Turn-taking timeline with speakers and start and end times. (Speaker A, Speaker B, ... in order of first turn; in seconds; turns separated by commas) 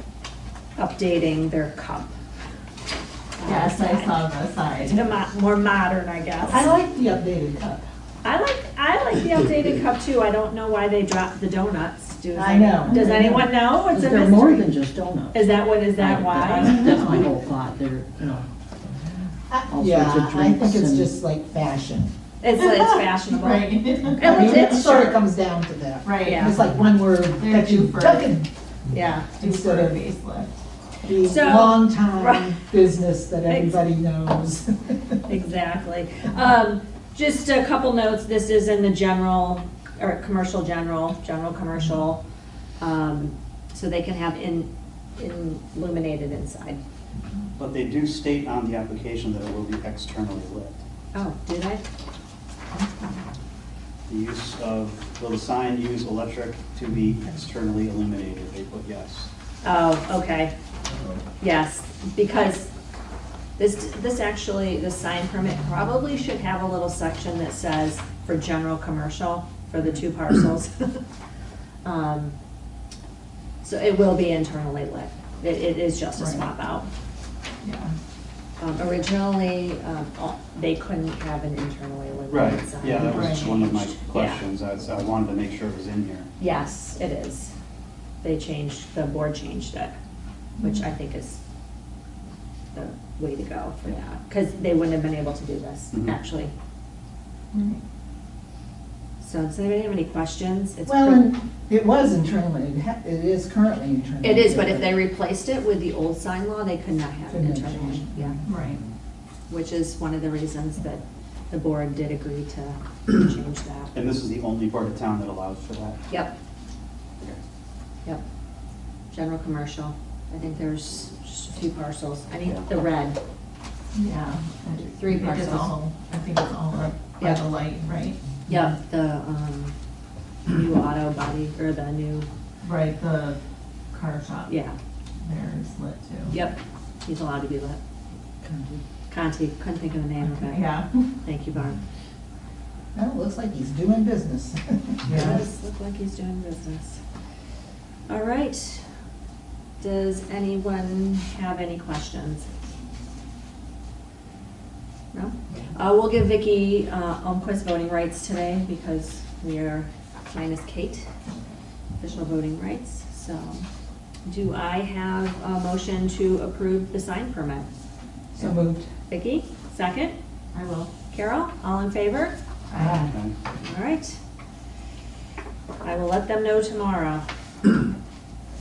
Speaker A: 0.8-2.1, Speaker A: 3.4-4.2, Speaker B: 3.4-5.1, Speaker A: 4.8-6.7, Speaker C: 6.5-7.9, Speaker A: 8.2-14.7, Speaker C: 12.3-13.5, Speaker D: 13.7-18.5, Speaker A: 15.3-17.2, Speaker C: 16.6-17.2, Speaker C: 19.5-22.1, Speaker D: 19.7-21.2, Speaker A: 22.4-25.2, Speaker B: 22.5-24.8, Speaker C: 24.1-28.5, Speaker B: 26.0-26.7, Speaker A: 26.2-26.6, Speaker B: 27.2-28.4, Speaker A: 28.9-29.4, Speaker B: 29.3-30.6, Speaker C: 29.4-30.0, Speaker C: 31.0-35.2, Speaker A: 31.2-32.6, Speaker A: 33.5-33.7, Speaker A: 35.3-42.2, Speaker A: 42.8-46.8, Speaker E: 47.6-50.8, Speaker A: 51.1-51.8, Speaker E: 54.1-59.3, Speaker A: 59.6-60.5, Speaker A: 61.4-62.7, Speaker A: 63.6-71.0, Speaker A: 71.8-72.3, Speaker A: 73.6-76.8, Speaker B: 76.2-76.4, Speaker B: 77.6-77.9, Speaker A: 78.6-84.4, Speaker E: 82.3-86.3, Speaker B: 83.0-83.5, Speaker A: 86.4-87.5, Speaker A: 88.2-89.9, Speaker B: 90.6-90.9, Speaker A: 90.6-91.4, Speaker A: 92.7-96.5, Speaker B: 97.5-97.8, Speaker A: 99.2-101.3, Speaker C: 100.8-105.0, Speaker A: 104.2-108.4, Speaker C: 107.3-108.4, Speaker B: 108.4-108.8, Speaker A: 109.5-113.9, Speaker E: 113.9-116.0, Speaker A: 116.1-116.3, Speaker A: 119.1-123.2, Speaker E: 122.4-122.7, Speaker B: 123.9-128.2, Speaker E: 124.8-125.3, Speaker A: 124.9-125.7, Speaker A: 128.5-129.7, Speaker A: 130.5-132.3, Speaker B: 132.6-133.4, Speaker B: 133.9-134.6, Speaker A: 134.5-134.8, Speaker B: 135.2-136.4, Speaker A: 136.3-137.8, Speaker D: 138.4-138.8, Speaker A: 139.1-141.8, Speaker B: 140.2-141.1, Speaker C: 142.9-145.3, Speaker B: 145.1-145.4, Speaker A: 145.1-147.0, Speaker A: 148.1-148.8, Speaker A: 149.8-152.5, Speaker A: 155.1-161.1, Speaker A: 162.0-163.6, Speaker A: 164.2-167.7, Speaker C: 168.3-168.9, Speaker A: 168.3-170.1, Speaker B: 170.5-170.9, Speaker A: 171.1-172.3, Speaker B: 172.7-173.1, Speaker E: 173.1-173.3, Speaker A: 173.6-174.2, Speaker A: 175.8-177.2